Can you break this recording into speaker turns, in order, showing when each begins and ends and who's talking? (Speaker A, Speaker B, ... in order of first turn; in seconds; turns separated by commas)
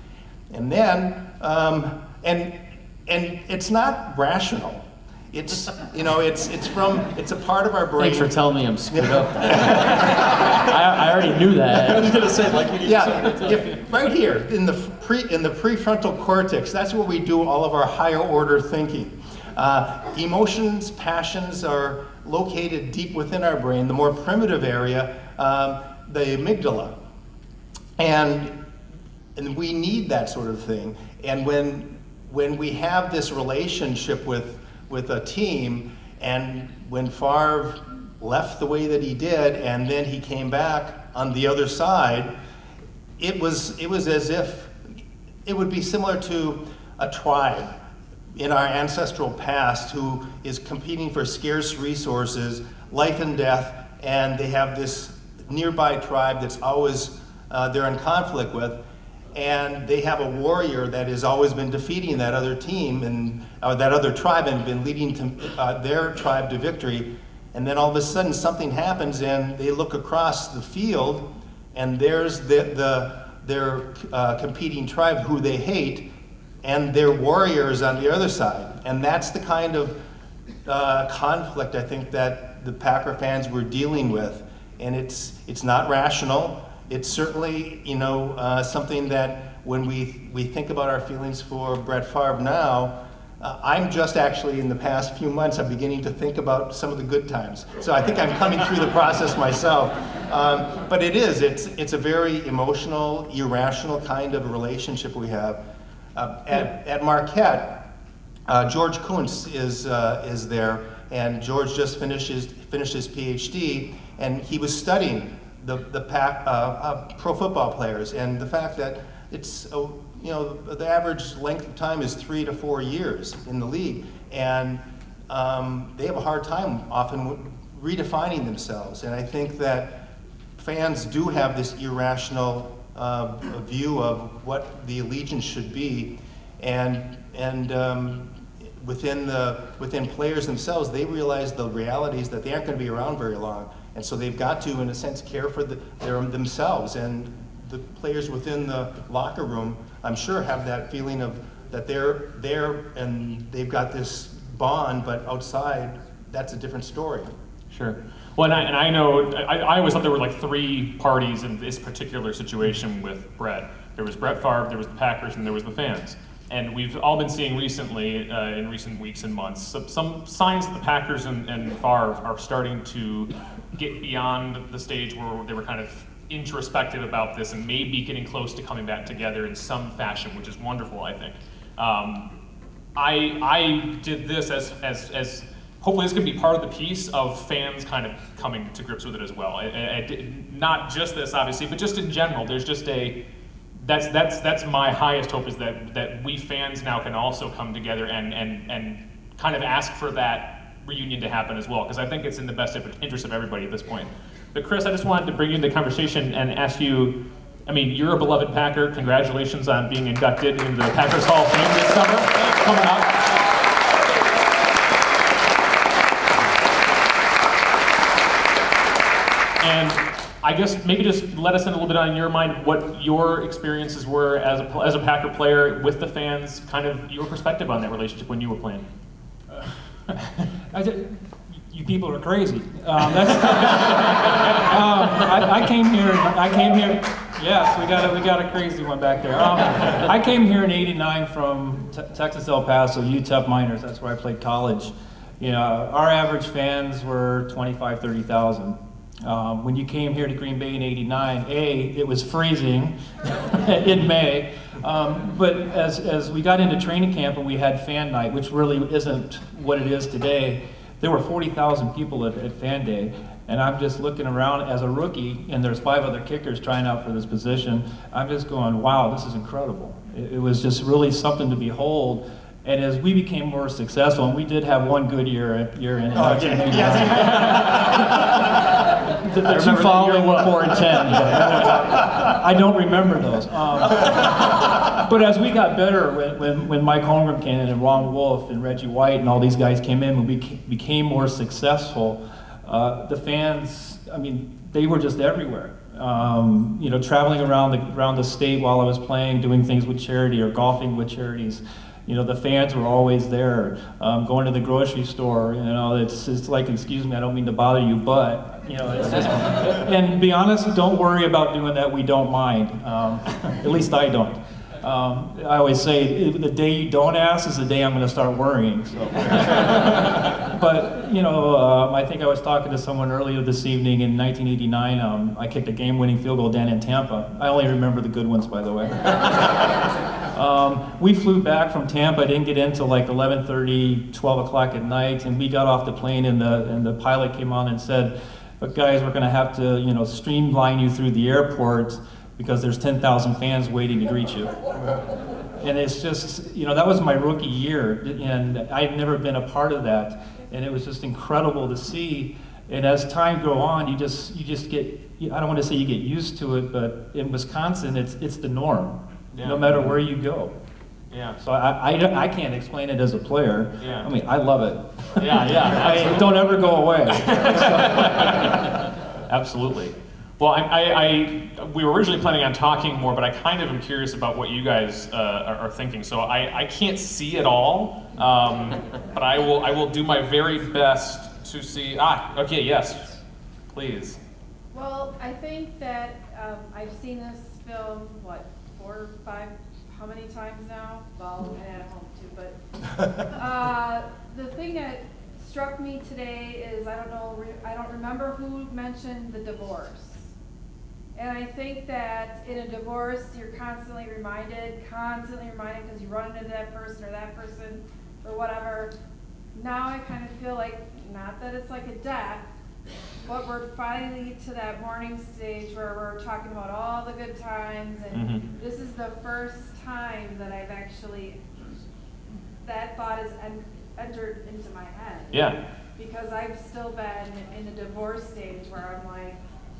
Speaker A: 0.5-8.3, Speaker B: 8.0-12.2, Speaker A: 8.9-10.1, Speaker C: 11.7-13.6, Speaker A: 12.8-27.0, Speaker B: 13.2-13.6, Speaker A: 28.0-28.5, Speaker A: 29.4-42.3, Speaker A: 43.2-44.7, Speaker A: 45.4-47.7, Speaker A: 48.3-58.8, Speaker A: 59.3-76.0, Speaker A: 76.6-80.0, Speaker A: 80.6-105.6, Speaker A: 106.1-107.8, Speaker A: 108.5-130.0, Speaker A: 130.6-157.3, Speaker D: 157.7-182.3, Speaker D: 182.9-193.2, Speaker D: 193.8-213.3, Speaker D: 219.6-228.8, Speaker E: 230.7-278.6, Speaker A: 276.1-278.1, Speaker E: 279.1-329.8, Speaker B: 279.5-281.5, Speaker E: 330.3-344.6, Speaker E: 345.6-360.5, Speaker D: 359.3-359.7, Speaker D: 361.1-361.4, Speaker E: 361.4-368.6, Speaker D: 363.8-364.1, Speaker D: 365.2-366.5, Speaker D: 367.1-383.2, Speaker D: 383.7-384.2, Speaker F: 384.7-392.6, Speaker F: 393.3-400.3, Speaker F: 401.1-408.9, Speaker F: 409.5-412.4, Speaker F: 413.2-421.8, Speaker D: 418.1-418.4, Speaker F: 422.6-429.4, Speaker D: 425.3-425.6